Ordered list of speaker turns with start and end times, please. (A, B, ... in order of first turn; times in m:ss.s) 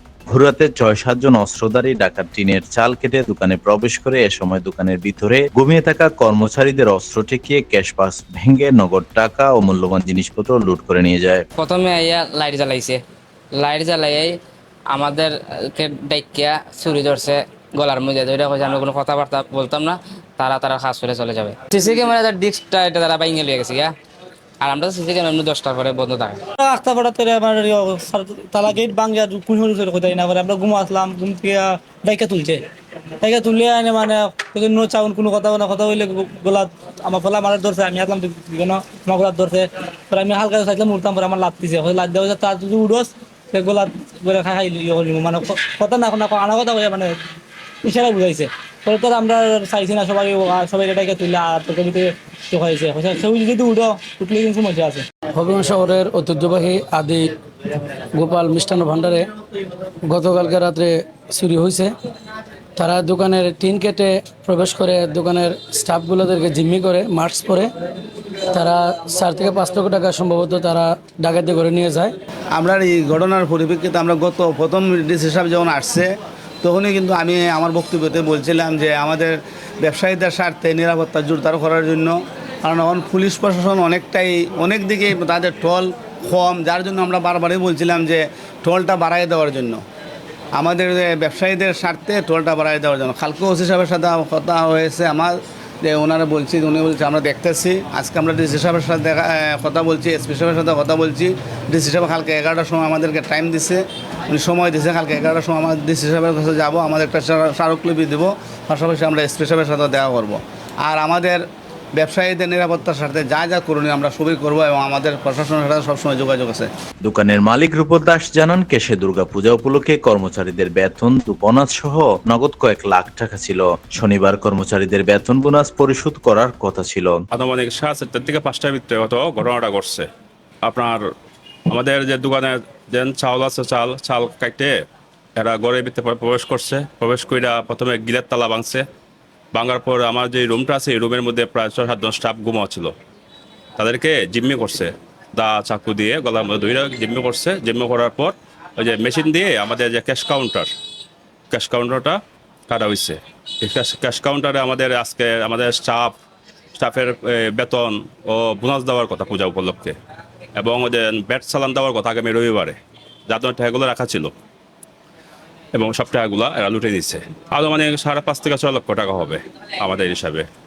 0:00.3-0:11.4 A
0:11.6-0:13.0 B
0:13.5-0:14.4 B
0:14.9-0:23.9 B
0:24.6-0:26.4 B
0:26.6-0:32.7 C
0:33.2-0:47.2 C
0:47.8-0:55.0 C
0:55.3-0:57.3 D
0:58.1-0:59.3 D
1:00.0-1:01.9 D
1:02.8-1:07.7 D
1:08.5-1:12.1 D
1:12.5-1:16.1 E
1:16.6-1:29.8 E
1:30.5-1:51.4 E
1:52.0-1:56.7 E
1:57.0-2:07.2 A
2:07.3-2:10.1 F
2:10.6-2:11.0 F
2:11.7-2:14.8 F
2:15.4-2:18.8 F
2:19.5-2:22.9 F
2:23.8-2:30.7 F
2:31.5-2:36.2 F
2:36.8-2:40.0 F
2:40.6-2:42.8 F
2:43.3-2:44.3 F
2:45.7-2:50.4 F